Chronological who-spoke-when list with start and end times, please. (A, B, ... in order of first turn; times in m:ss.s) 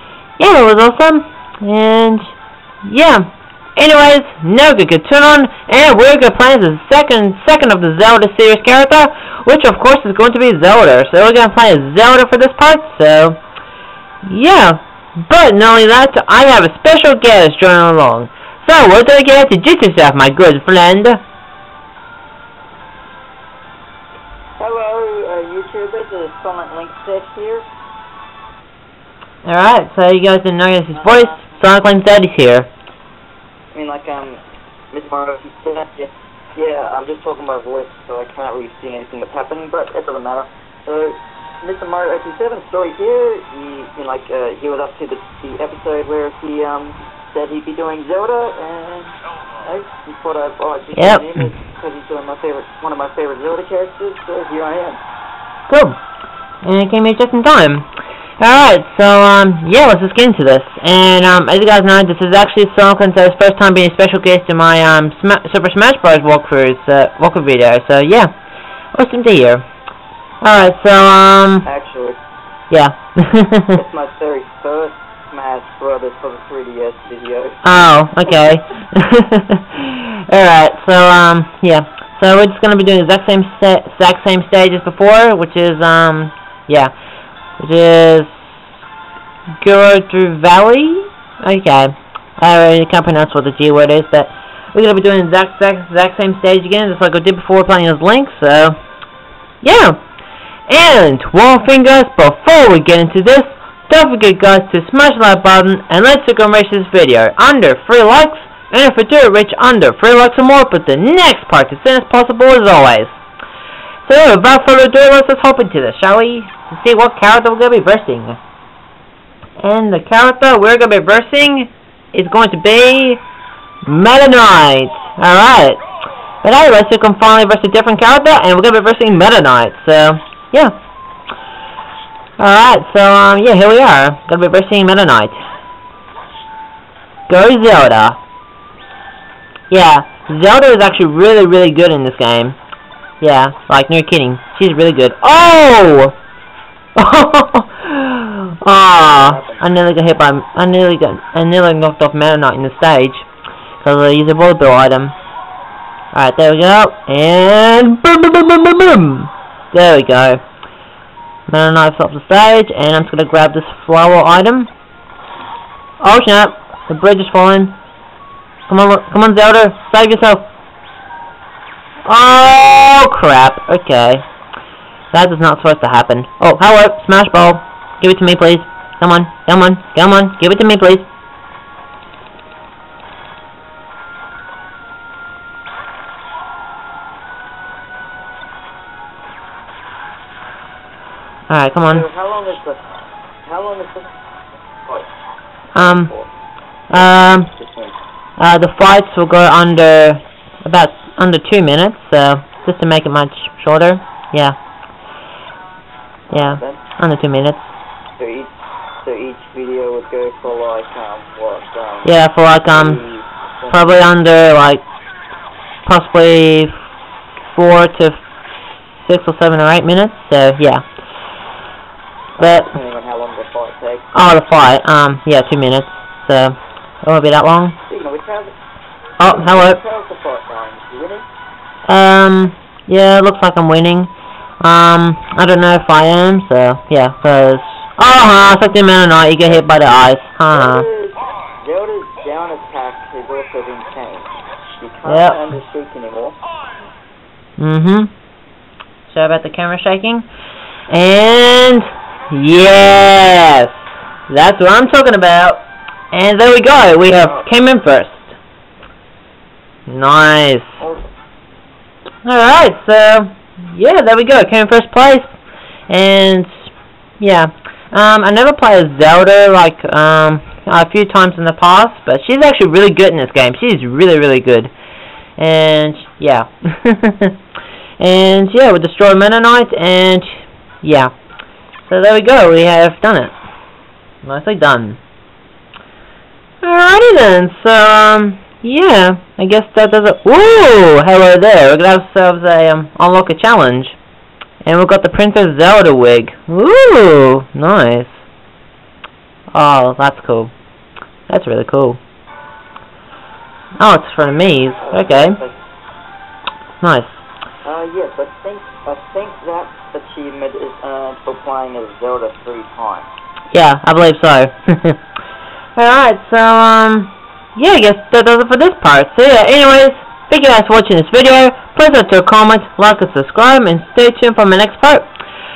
0:00.4-0:13.4 A
0:14.2-0:21.2 A
0:24.6-0:27.6 B
0:29.4-0:32.7 A
0:33.7-0:34.4 B
0:34.9-0:55.0 B
0:51.0-0:51.5 A
0:55.7-0:56.0 A
0:56.6-0:57.9 A
0:58.4-1:08.3 A
1:08.9-1:09.6 A
1:10.4-1:11.7 A
1:11.6-1:12.2 B
1:12.7-1:13.8 A
1:13.8-1:17.6 B
1:17.6-1:26.9 A
1:27.6-1:28.3 A
1:29.6-1:38.8 A
1:39.6-1:40.0 A
1:40.7-1:53.2 A
1:54.0-1:58.4 A
1:59.6-2:03.2 A
2:03.8-2:05.8 A
2:06.4-2:10.7 A
2:12.4-2:15.4 A
2:17.3-2:18.2 A
2:19.7-2:22.6 A
2:23.2-2:26.2 A
2:27.0-2:33.3 A
2:29.1-2:29.7 B
2:33.8-2:35.2 A
2:36.1-2:40.4 A
2:41.5-2:44.7 A
2:46.0-2:47.8 A
2:48.7-2:50.5 A
2:52.1-2:54.2 A
2:55.1-3:01.1 A
3:11.5-3:12.0 A
3:11.9-3:14.1 B
3:15.8-3:16.1 A
3:15.8-3:16.3 B
3:16.9-3:17.5 A
3:16.9-3:18.0 B
3:18.4-3:24.6 A
3:26.3-3:26.8 B
3:26.3-3:27.6 A
3:28.2-3:34.0 B
3:32.0-3:33.0 A
3:33.7-3:34.8 A
3:35.9-3:36.7 A
3:37.5-3:38.2 A
3:39.0-3:40.8 A
3:42.4-3:44.1 B
3:42.4-3:42.7 A
3:44.1-3:47.8 A
3:47.8-3:48.5 B
3:49.2-3:49.8 A
3:49.2-3:51.3 B
3:51.9-4:00.8 A
4:00.5-4:06.4 B
4:05.1-4:05.4 A
4:07.6-4:08.1 A
4:09.1-4:10.3 A
4:10.9-4:18.4 A
4:17.2-4:17.5 B
4:19.9-4:20.8 A
4:22.2-4:25.3 A
4:25.9-4:34.7 A
4:35.4-4:37.4 A
4:38.0-4:41.1 A
4:41.8-4:43.3 A
4:44.2-4:45.0 A
4:46.6-4:54.0 A
4:54.6-4:58.2 A
4:59.5-5:00.5 A
5:01.3-5:02.0 A
5:03.8-5:05.4 A
5:04.8-5:05.6 B
5:06.8-5:07.2 A
5:07.6-5:13.1 B
5:13.5-5:15.0 A
5:15.8-5:25.1 A